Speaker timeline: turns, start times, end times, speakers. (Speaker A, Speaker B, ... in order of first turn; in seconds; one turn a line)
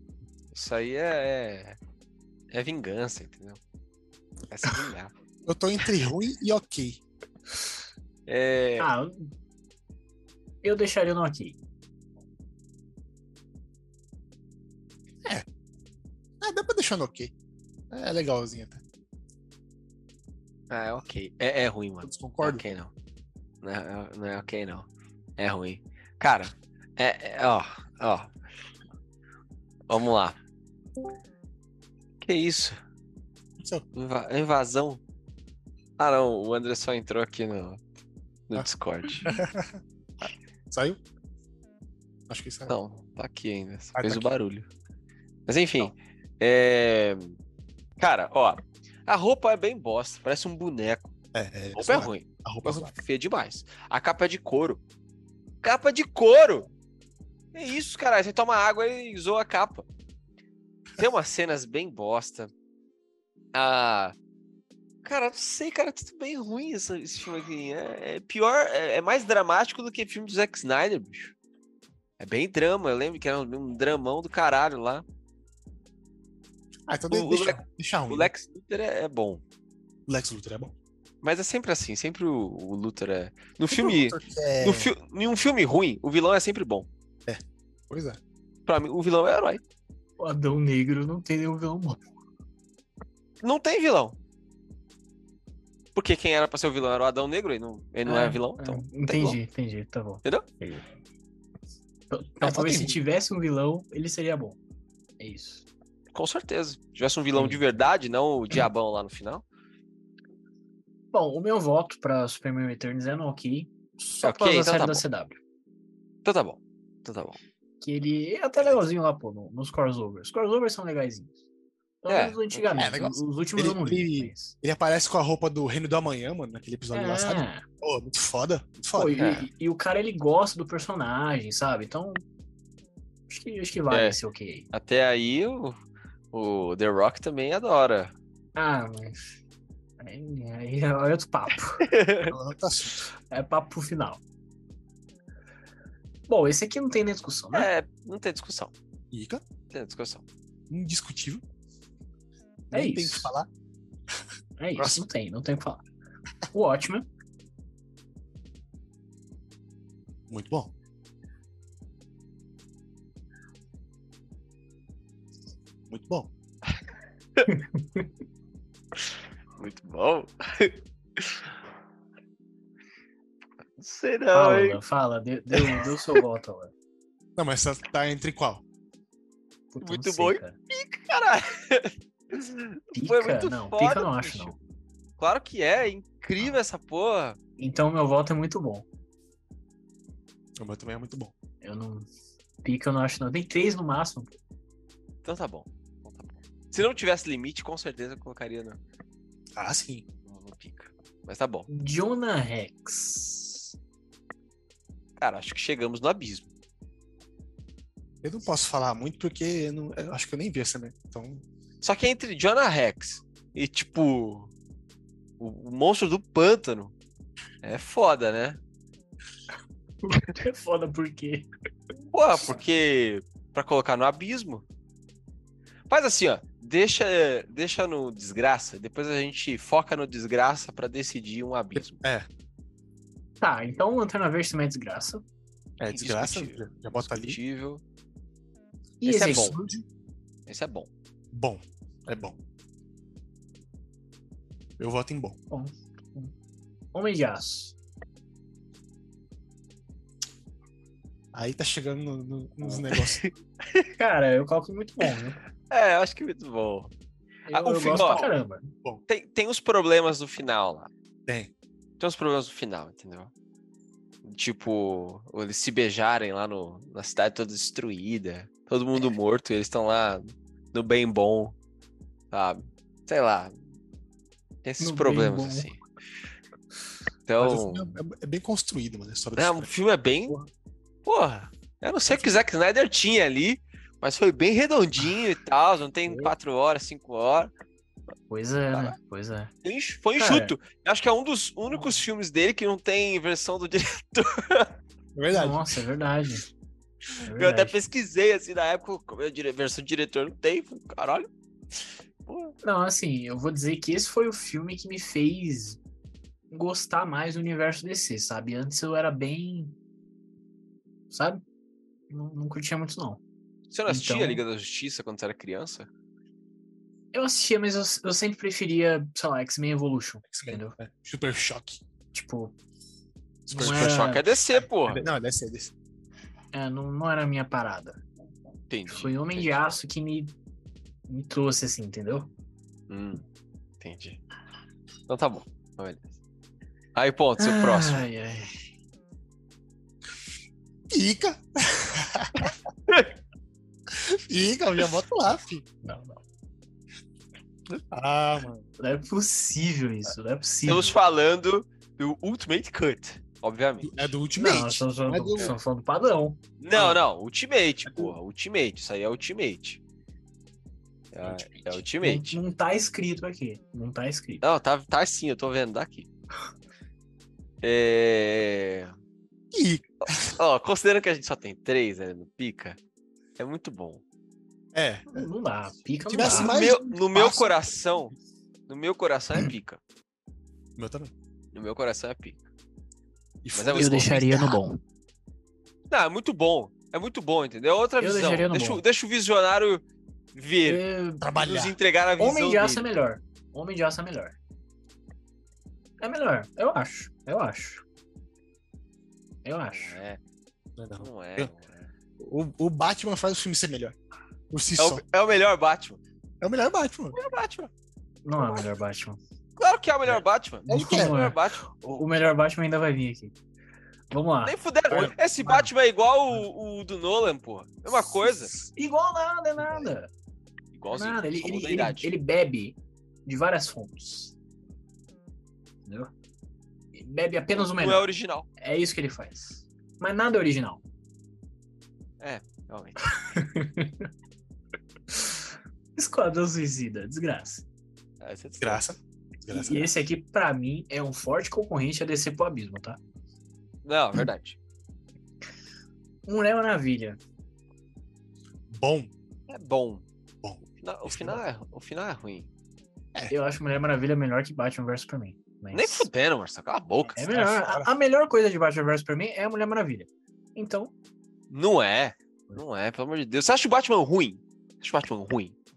Speaker A: 0.5-1.8
Speaker A: 2.5-3.6
Speaker A: 4.5-5.1
Speaker B: 5.4-7.0
Speaker A: 8.3-8.9
Speaker C: 8.8-9.3
Speaker C: 10.6-11.6
Speaker B: 16.4-17.3
Speaker B: 17.9-18.8
Speaker A: 20.7-22.9
Speaker B: 22.0-22.6
Speaker A: 23.6-28.3
Speaker A: 29.9-30.4
Speaker A: 32.2-32.8
Speaker B: 33.6-33.9
Speaker A: 33.9-35.0
Speaker A: 36.0-37.8
Speaker A: 38.5-39.3
Speaker B: 39.2-39.8
Speaker B: 40.7-41.0
Speaker B: 42.3-42.8
Speaker A: 42.7-44.7
Speaker B: 43.9-44.3
Speaker A: 45.5-47.4
Speaker A: 48.0-51.1
Speaker B: 51.3-52.9
Speaker A: 51.8-54.8
Speaker A: 55.6-56.7
Speaker A: 57.5-59.9
Speaker A: 61.0-62.5
Speaker A: 63.5-64.1
Speaker A: 65.0-71.3
Speaker A: 72.2-75.0
Speaker B: 76.9-78.3
Speaker A: 77.1-79.4
Speaker B: 80.1-80.7
Speaker A: 81.2-86.9
Speaker B: 83.7-84.9
Speaker B: 87.2-88.2
Speaker A: 88.7-89.6
Speaker C: 90.2-92.0
Speaker A: 93.4-94.2
Speaker A: 95.9-99.4
Speaker C: 98.0-100.8
Speaker C: 102.1-104.6
Speaker B: 102.4-103.0
Speaker C: 105.2-105.7
Speaker A: 106.1-109.4
Speaker C: 107.3-107.8
Speaker C: 111.1-115.4
Speaker A: 114.2-115.0
Speaker A: 116.2-117.4
Speaker C: 117.8-121.3
Speaker C: 122.0-124.5
Speaker A: 122.1-122.9
Speaker B: 122.8-129.2
Speaker C: 126.9-127.6
Speaker C: 128.9-132.2
Speaker A: 129.2-129.4
Speaker C: 133.3-134.7
Speaker A: 133.9-134.2
Speaker A: 134.7-135.8
Speaker A: 136.3-138.1
Speaker C: 138.6-139.2
Speaker C: 140.0-141.9
Speaker A: 141.8-142.3
Speaker B: 142.3-143.0
Speaker C: 143.3-144.2
Speaker C: 146.3-147.7
Speaker A: 147.5-148.7
Speaker B: 149.1-149.4
Speaker A: 149.7-150.2
Speaker B: 150.7-151.4
Speaker B: 152.7-153.5
Speaker C: 152.7-153.3
Speaker C: 154.6-155.8
Speaker B: 154.8-155.0
Speaker C: 156.5-157.1
Speaker B: 160.3-160.7
Speaker B: 165.9-166.3
Speaker C: 167.5-168.1
Speaker A: 169.6-171.5
Speaker A: 173.8-174.8
Speaker C: 174.3-176.7
Speaker A: 175.5-176.2
Speaker B: 177.4-178.6
Speaker C: 179.7-180.6
Speaker A: 179.8-184.5
Speaker C: 182.9-184.6
Speaker A: 185.2-187.4
Speaker C: 187.6-188.9
Speaker B: 190.6-191.3
Speaker C: 191.6-192.1
Speaker C: 192.6-194.3
Speaker A: 195.2-198.8
Speaker B: 199.6-200.1
Speaker A: 200.2-201.7
Speaker C: 201.7-203.7
Speaker A: 205.2-206.5
Speaker B: 208.2-211.4
Speaker A: 211.8-214.5
Speaker A: 215.4-216.9
Speaker A: 217.6-218.6
Speaker C: 220.0-221.5
Speaker A: 222.1-224.6
Speaker A: 225.9-232.0
Speaker B: 232.0-232.3
Speaker C: 233.4-235.2
Speaker B: 235.8-237.4
Speaker A: 235.9-237.8
Speaker C: 239.0-239.6
Speaker A: 239.0-239.6
Speaker B: 239.1-239.9
Speaker A: 240.5-240.9
Speaker B: 241.3-242.4
Speaker B: 244.8-245.4
Speaker C: 245.5-246.3
Speaker C: 246.9-247.8
Speaker B: 251.3-253.2
Speaker A: 253.1-253.9
Speaker C: 254.0-255.4
Speaker A: 255.7-256.9
Speaker C: 257.5-258.7
Speaker A: 257.5-258.3
Speaker B: 257.7-258.2
Speaker A: 259.1-260.9
Speaker A: 262.0-263.3
Speaker A: 264.2-271.5
Speaker A: 272.3-273.5
Speaker A: 274.6-275.8
Speaker C: 274.8-275.7
Speaker A: 277.3-277.9
Speaker B: 277.4-279.7
Speaker A: 279.4-280.4
Speaker A: 281.0-287.5
Speaker C: 288.3-289.5
Speaker A: 289.6-294.8
Speaker C: 290.2-290.5
Speaker B: 295.1-295.7
Speaker C: 295.3-296.4
Speaker A: 297.2-301.3
Speaker C: 297.2-297.8
Speaker A: 302.2-302.5
Speaker C: 302.6-305.8
Speaker C: 306.5-309.8
Speaker C: 311.1-311.4
Speaker C: 312.1-313.2
Speaker A: 313.7-315.9
Speaker C: 313.9-314.4
Speaker C: 317.1-320.8
Speaker B: 320.3-321.8
Speaker C: 322.1-322.5
Speaker B: 323.5-324.1
Speaker C: 323.5-324.3
Speaker A: 323.5-325.0
Speaker B: 324.9-325.7
Speaker C: 326.5-328.0
Speaker A: 328.7-329.7
Speaker C: 328.9-330.3
Speaker C: 331.1-332.3
Speaker A: 332.9-333.2
Speaker A: 333.8-334.2
Speaker A: 335.1-336.1
Speaker A: 336.9-338.0
Speaker C: 337.4-338.5
Speaker B: 340.9-342.5
Speaker B: 343.9-345.6
Speaker C: 345.8-346.2
Speaker B: 347.9-348.6
Speaker C: 348.8-350.9
Speaker A: 350.6-354.1
Speaker B: 353.8-355.5
Speaker C: 354.4-357.0
Speaker A: 356.6-359.8
Speaker A: 361.1-362.4
Speaker C: 361.3-364.4
Speaker A: 364.4-366.1
Speaker A: 367.6-368.9
Speaker B: 369.5-370.4
Speaker A: 370.2-372.8
Speaker A: 373.4-374.0
Speaker B: 374.7-375.3
Speaker C: 375.1-376.7
Speaker B: 376.1-377.6
Speaker A: 376.2-378.1
Speaker A: 378.7-379.8
Speaker B: 380.8-381.1
Speaker A: 381.5-382.4
Speaker B: 383.4-384.6
Speaker A: 383.5-384.1
Speaker C: 383.7-384.8
Speaker A: 385.9-389.8
Speaker C: 388.0-388.8
Speaker A: 390.4-390.8
Speaker C: 390.6-391.3
Speaker B: 391.2-391.8
Speaker A: 391.4-392.9
Speaker C: 392.2-394.4
Speaker C: 396.0-397.8
Speaker C: 399.4-400.0
Speaker A: 399.7-400.2
Speaker B: 400.8-401.5
Speaker A: 401.0-401.9
Speaker B: 402.2-403.9
Speaker B: 404.5-405.0
Speaker A: 404.8-406.0
Speaker B: 406.4-407.2
Speaker A: 407.1-407.7
Speaker C: 408.2-409.2
Speaker A: 409.6-411.6
Speaker B: 410.1-411.1
Speaker C: 410.7-413.4
Speaker C: 414.1-415.7
Speaker A: 414.4-418.5
Speaker C: 418.6-420.1
Speaker B: 419.6-419.9
Speaker A: 420.7-422.1
Speaker C: 420.9-424.3
Speaker C: 425.9-426.1
Speaker C: 426.9-430.8
Speaker A: 427.5-428.4
Speaker A: 432.2-433.0
Speaker C: 433.1-434.1
Speaker C: 435.1-435.4
Speaker C: 435.9-437.6
Speaker A: 438.2-438.8
Speaker B: 438.6-439.9
Speaker C: 439.5-443.0
Speaker A: 443.9-444.6
Speaker C: 446.2-447.2
Speaker B: 448.7-449.1
Speaker A: 449.5-450.1
Speaker B: 450.4-451.4
Speaker A: 450.8-452.5
Speaker C: 453.3-456.1
Speaker A: 455.7-457.2
Speaker C: 457.1-460.9
Speaker B: 457.2-457.9
Speaker A: 461.5-465.6